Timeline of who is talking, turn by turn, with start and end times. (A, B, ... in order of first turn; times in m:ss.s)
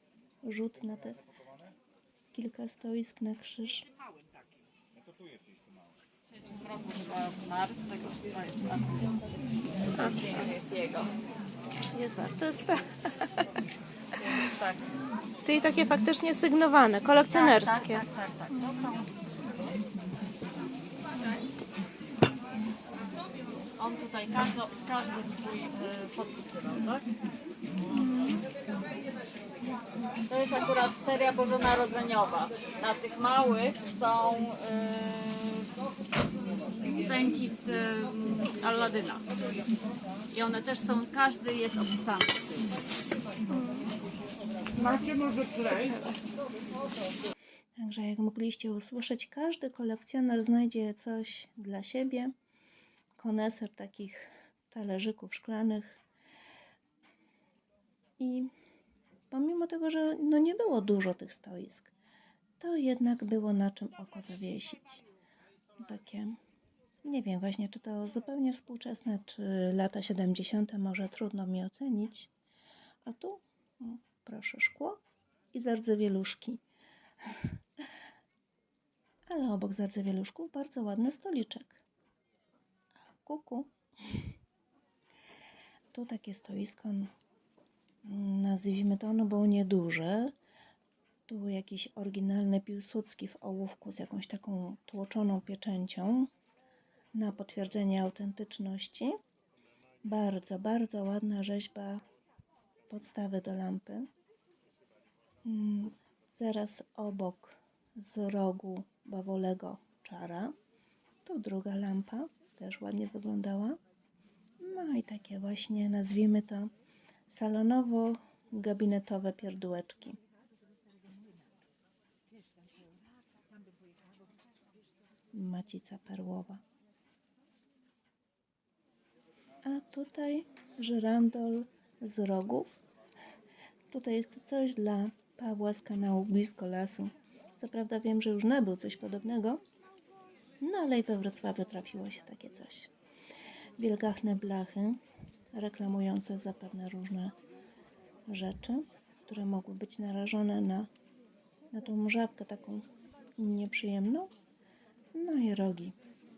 0:00.4-0:01.2 A
0:02.3-0:03.9 A
0:06.5-0:09.2 B
0:09.8-0:11.2 B
0:11.9-0:13.0 C
0:14.2-0:14.9 B
0:15.4-0:18.0 C
0:17.3-0:19.1 B
0:23.8-0:27.1 B
0:27.9-0:28.4 A
0:30.2-0:35.7 B
0:36.8-0:39.3 B
0:40.3-0:42.8 B
0:44.8-0:46.2 C
0:47.8-0:52.3 A
0:53.2-0:56.0 A
0:58.2-0:58.5 A
0:59.3-1:01.9 A
1:02.6-1:05.0 A
1:05.8-1:06.4 A
1:07.0-1:12.3 A
1:13.0-1:15.0 A
1:15.5-1:16.6 A
1:17.2-1:17.8 A
1:19.3-1:21.8 A
1:23.0-1:24.3 A
1:25.9-1:27.1 A
1:28.0-1:30.4 A
1:31.3-1:36.3 A
1:37.1-1:39.2 A
1:40.0-1:42.1 A
1:42.9-1:44.1 A
1:45.4-1:50.6 A
1:51.2-1:53.8 A
1:54.6-1:56.7 A
1:57.3-2:00.2 A
2:05.3-2:06.6 A
2:09.6-2:12.8 A
2:13.9-2:19.6 A
2:20.6-2:22.9 A
2:23.8-2:25.0 A
2:25.5-2:27.4 A
2:28.3-2:30.9 A
2:31.7-2:34.3 A
2:35.1-2:36.0 A